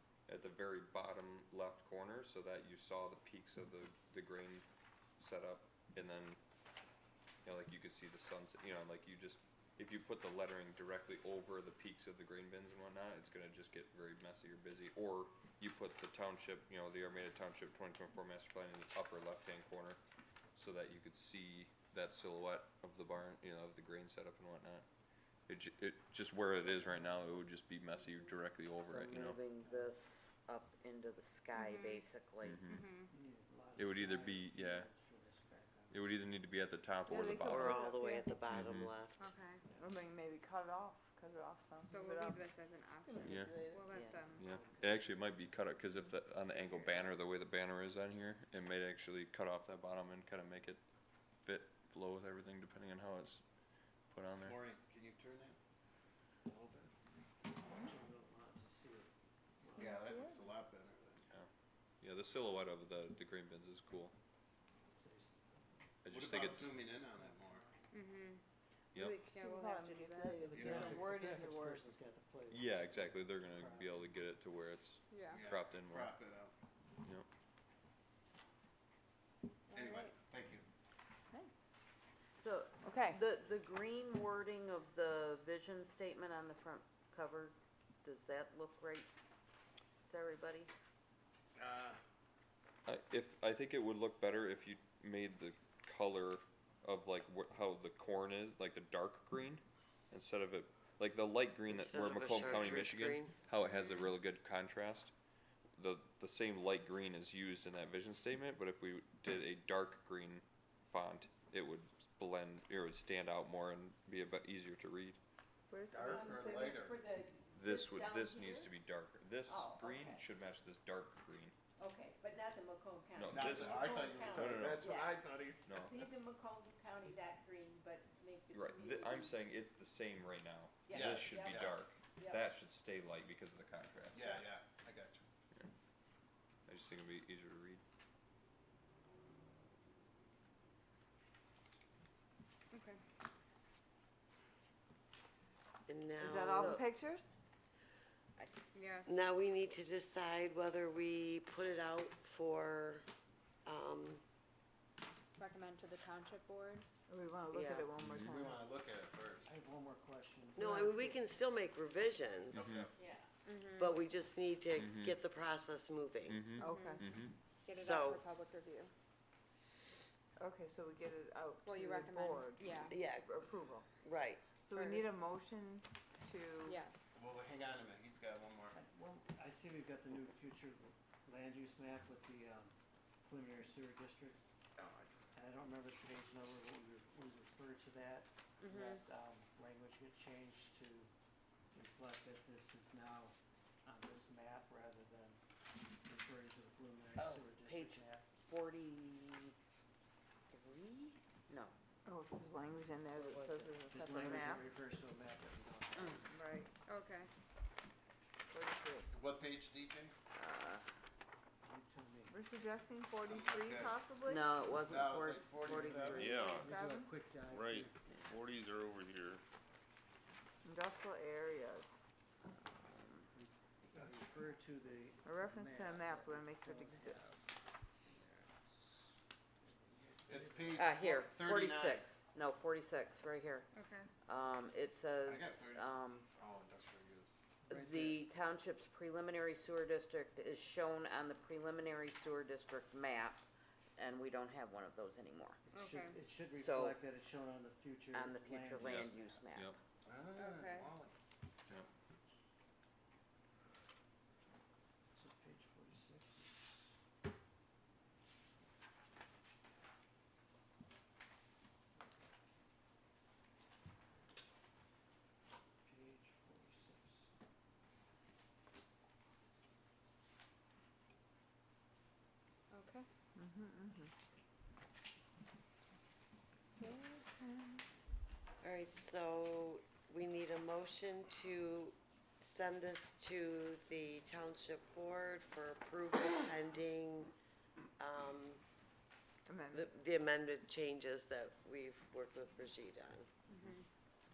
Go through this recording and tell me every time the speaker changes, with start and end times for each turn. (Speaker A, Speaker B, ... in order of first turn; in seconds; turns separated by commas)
Speaker A: 0.3-4.7, Speaker A: 5.2-6.4, Speaker A: 7.4-20.0, Speaker A: 20.6-24.9, Speaker A: 25.5-29.4, Speaker B: 26.7-27.0, Speaker C: 28.8-32.6, Speaker B: 29.6-29.9, Speaker D: 31.5-32.0, Speaker A: 32.4-32.9, Speaker D: 32.7-33.1, Speaker B: 33.1-36.2, Speaker A: 33.8-34.9, Speaker A: 35.9-37.8, Speaker E: 37.1-38.3, Speaker F: 37.4-39.2, Speaker A: 38.5-38.9, Speaker D: 39.2-39.6, Speaker E: 39.7-42.5, Speaker D: 41.9-44.4, Speaker E: 43.0-44.3, Speaker A: 43.2-43.5, Speaker F: 43.5-43.8, Speaker B: 44.4-44.8, Speaker A: 44.4-50.8, Speaker A: 51.4-53.4, Speaker A: 54.1-54.6, Speaker G: 54.4-55.6, Speaker G: 56.5-57.0, Speaker B: 57.6-60.0, Speaker G: 59.8-61.3, Speaker E: 59.8-60.5, Speaker A: 62.0-64.1, Speaker B: 64.8-66.0, Speaker A: 66.0-66.7, Speaker G: 66.1-67.7, Speaker B: 66.6-68.0, Speaker D: 67.9-68.4, Speaker E: 68.9-71.9, Speaker D: 69.2-70.4, Speaker B: 70.2-74.1, Speaker G: 70.5-71.2, Speaker A: 72.5-76.1, Speaker D: 75.1-75.5, Speaker G: 75.3-76.5, Speaker G: 79.7-80.6, Speaker D: 79.7-80.1, Speaker E: 81.3-81.6, Speaker C: 82.4-89.1, Speaker E: 82.8-83.2, Speaker C: 90.1-90.7, Speaker G: 91.6-92.0, Speaker A: 92.9-105.1, Speaker F: 101.7-103.3, Speaker A: 105.8-115.2, Speaker E: 115.7-116.8, Speaker G: 115.9-117.0, Speaker H: 116.0-118.7, Speaker A: 117.5-121.5, Speaker H: 119.5-120.3, Speaker H: 121.8-129.4, Speaker A: 123.2-125.0, Speaker G: 123.3-125.6, Speaker A: 125.7-126.1, Speaker A: 128.5-134.4, Speaker H: 130.9-132.5, Speaker G: 130.9-131.8, Speaker G: 134.1-135.3, Speaker A: 136.7-137.8, Speaker D: 142.7-143.0, Speaker F: 145.9-146.8, Speaker E: 146.2-147.3, Speaker C: 146.4-146.9, Speaker D: 148.7-149.1, Speaker F: 149.1-153.0, Speaker F: 153.7-154.2, Speaker D: 155.4-156.8, Speaker E: 157.1-158.7, Speaker F: 157.5-157.9, Speaker G: 158.0-159.5, Speaker B: 159.4-161.2, Speaker F: 160.6-162.7, Speaker E: 160.6-161.1, Speaker G: 162.5-163.0, Speaker A: 162.5-162.9, Speaker H: 162.9-163.4, Speaker D: 163.5-163.9, Speaker F: 163.8-166.6, Speaker A: 164.8-165.2, Speaker A: 166.3-167.4, Speaker E: 166.6-167.1, Speaker D: 166.7-167.0, Speaker D: 167.7-168.9, Speaker F: 167.7-168.2, Speaker E: 170.4-173.9, Speaker D: 171.7-172.9, Speaker F: 172.9-173.3, Speaker F: 174.0-174.5, Speaker E: 174.5-176.8, Speaker D: 174.7-175.1, Speaker D: 176.7-177.2, Speaker G: 177.2-178.8, Speaker B: 178.7-191.1, Speaker C: 188.6-189.0, Speaker B: 191.7-195.4, Speaker B: 196.0-198.3, Speaker C: 197.2-199.6, Speaker C: 200.5-201.7, Speaker E: 202.1-204.7, Speaker C: 203.1-204.4, Speaker B: 203.9-206.3, Speaker C: 205.9-206.3, Speaker E: 206.3-206.7, Speaker D: 206.9-207.3, Speaker E: 208.5-209.1, Speaker G: 209.1-210.1, Speaker C: 210.3-210.9, Speaker B: 211.6-212.4, Speaker E: 212.3-214.5, Speaker G: 213.2-214.0, Speaker C: 214.2-216.5, Speaker G: 214.8-216.3, Speaker B: 215.6-218.2, Speaker I: 216.2-216.7, Speaker E: 216.3-217.1, Speaker I: 217.5-219.4, Speaker E: 220.7-222.0, Speaker C: 222.4-223.3, Speaker B: 223.3-227.5, Speaker E: 225.2-227.5, Speaker B: 228.0-231.2, Speaker G: 230.3-232.1, Speaker C: 230.8-233.7, Speaker D: 233.8-234.1, Speaker C: 234.3-236.3, Speaker G: 235.2-237.6, Speaker C: 237.7-243.4, Speaker B: 237.7-238.2, Speaker C: 244.0-245.6, Speaker B: 245.7-249.4, Speaker D: 245.7-246.2, Speaker C: 246.5-247.0, Speaker C: 248.1-249.8, Speaker A: 248.8-249.8, Speaker G: 250.1-251.1, Speaker D: 250.3-250.9, Speaker B: 255.1-256.9, Speaker B: 261.9-262.3, Speaker B: 265.8-267.3, Speaker D: 272.7-273.1, Speaker E: 273.4-274.1, Speaker E: 276.8-277.8, Speaker F: 278.6-287.3, Speaker F: 288.0-288.6, Speaker E: 289.5-289.9, Speaker F: 289.7-293.3, Speaker D: 293.6-293.8